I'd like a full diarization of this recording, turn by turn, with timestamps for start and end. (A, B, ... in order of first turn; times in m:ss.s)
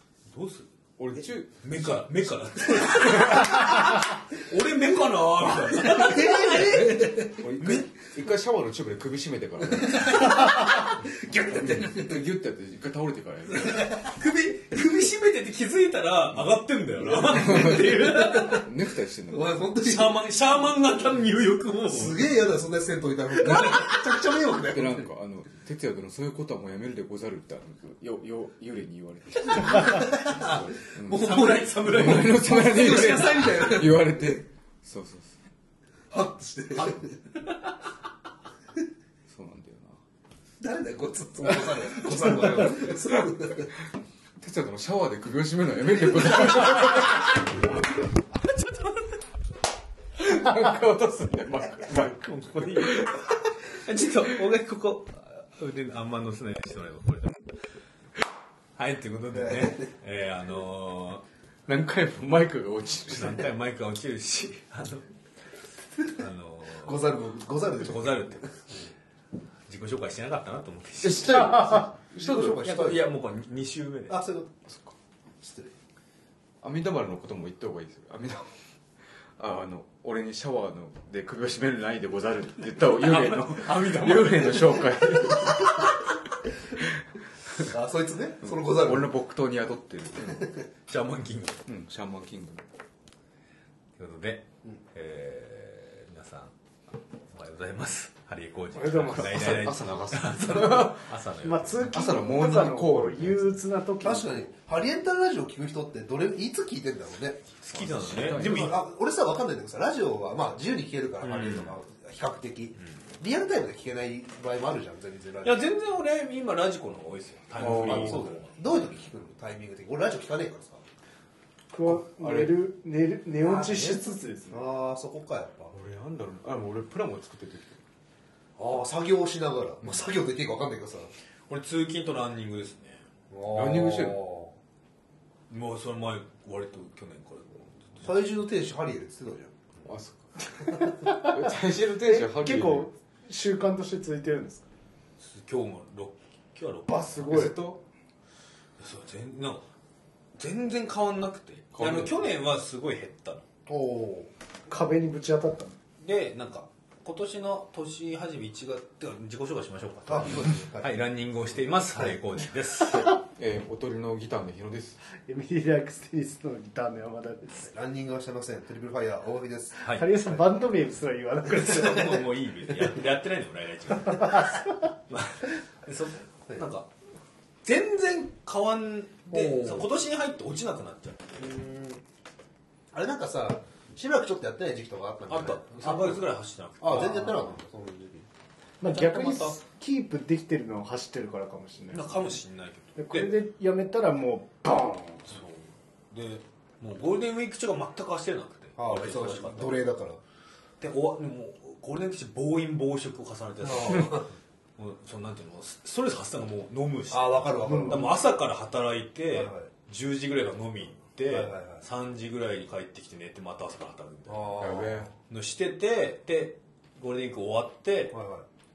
0:00.3-0:00.7 A
0:01.0-0:03.7 B
0:01.6-0:07.9 A
0:05.8-0:07.5 C
0:07.4-0:10.5 B
0:09.7-0:12.2 C
0:11.5-0:13.9 B
0:13.5-0:18.7 A
0:17.0-0:18.6 C
0:17.3-0:19.6 B
0:19.3-0:20.2 C
0:19.8-0:22.4 A
0:21.9-0:25.1 C
0:23.4-0:24.1 A
0:23.4-0:23.8 B
0:24.7-0:35.4 B
0:29.5-0:34.4 C
0:31.1-0:33.7 A
0:36.1-0:37.2 C
0:39.3-0:40.0 B
0:40.6-0:43.7 C
0:41.4-0:43.3 B
0:44.4-0:47.5 B
0:48.4-0:49.2 A
0:50.2-0:53.3 B
0:51.9-0:53.2 A
0:53.7-0:57.5 A
0:58.8-1:01.2 A
0:59.3-0:59.9 C
1:01.7-1:03.5 B
1:03.1-1:05.1 A
1:06.1-1:07.0 A
1:06.8-1:08.4 C
1:07.8-1:08.5 A
1:09.7-1:11.9 A
1:11.0-1:12.6 B
1:11.3-1:13.1 C
1:12.6-1:14.2 A
1:14.1-1:14.5 C
1:14.7-1:14.9 B
1:15.4-1:15.7 C
1:16.6-1:18.5 B
1:19.4-1:25.9 B
1:23.0-1:24.9 A
1:27.6-1:29.1 C
1:28.4-1:30.5 B
1:30.9-1:31.7 A
1:31.7-1:32.6 B
1:34.0-1:36.5 A
1:37.3-1:41.9 A
1:38.8-1:39.6 D
1:39.2-1:41.1 B
1:41.4-1:44.5 D
1:41.9-1:43.6 B
1:44.0-1:47.5 C
1:47.6-1:48.8 A
1:47.7-1:48.8 B
1:48.3-1:55.7 C
1:51.2-1:51.7 A
1:55.4-1:59.0 A
1:57.6-1:58.3 B
1:57.6-2:00.8 C
2:01.7-2:04.6 D
2:01.8-2:02.6 B
2:03.6-2:05.8 C
2:05.7-2:07.8 B
2:08.6-2:11.1 C
2:11.5-2:13.0 A
2:13.3-2:14.5 C
2:13.5-2:14.2 B
2:15.5-2:18.1 A
2:18.0-2:19.5 C
2:19.9-2:20.2 B
2:21.0-2:21.4 D
2:21.1-2:22.9 B
2:22.0-2:24.6 D
2:25.2-2:27.2 A
2:26.9-2:27.6 D
2:27.2-2:27.8 B
2:28.8-2:29.7 A
2:30.4-2:33.4 A
2:31.7-2:32.3 B
2:33.7-2:34.3 C
2:34.7-2:35.8 D
2:36.0-2:43.1 A
2:40.1-2:41.0 C
2:43.3-2:45.0 B
2:45.2-2:47.7 D
2:47.6-2:50.4 C
2:49.8-2:50.1 A
2:49.9-2:52.3 D
2:51.4-2:56.9 A
2:54.1-2:54.7 D
2:57.6-3:01.4 A
2:59.3-2:59.9 C
3:01.4-3:02.0 C
3:02.9-3:06.2 C
3:05.3-3:07.6 A
3:06.8-3:08.3 C
3:06.9-3:07.4 D
3:08.8-3:12.3 D
3:08.8-3:09.6 A
3:11.9-3:13.4 A
3:13.0-3:15.4 D
3:15.3-3:19.8 A
3:18.8-3:20.2 C
3:20.8-3:24.3 A
3:23.6-3:24.3 C
3:24.8-3:34.7 A
3:27.1-3:28.2 C
3:27.6-3:28.2 D
3:29.3-3:29.7 C
3:31.3-3:31.9 C
3:34.3-3:35.1 C
3:34.6-3:35.1 B
3:35.3-3:38.2 A
3:38.1-3:38.5 C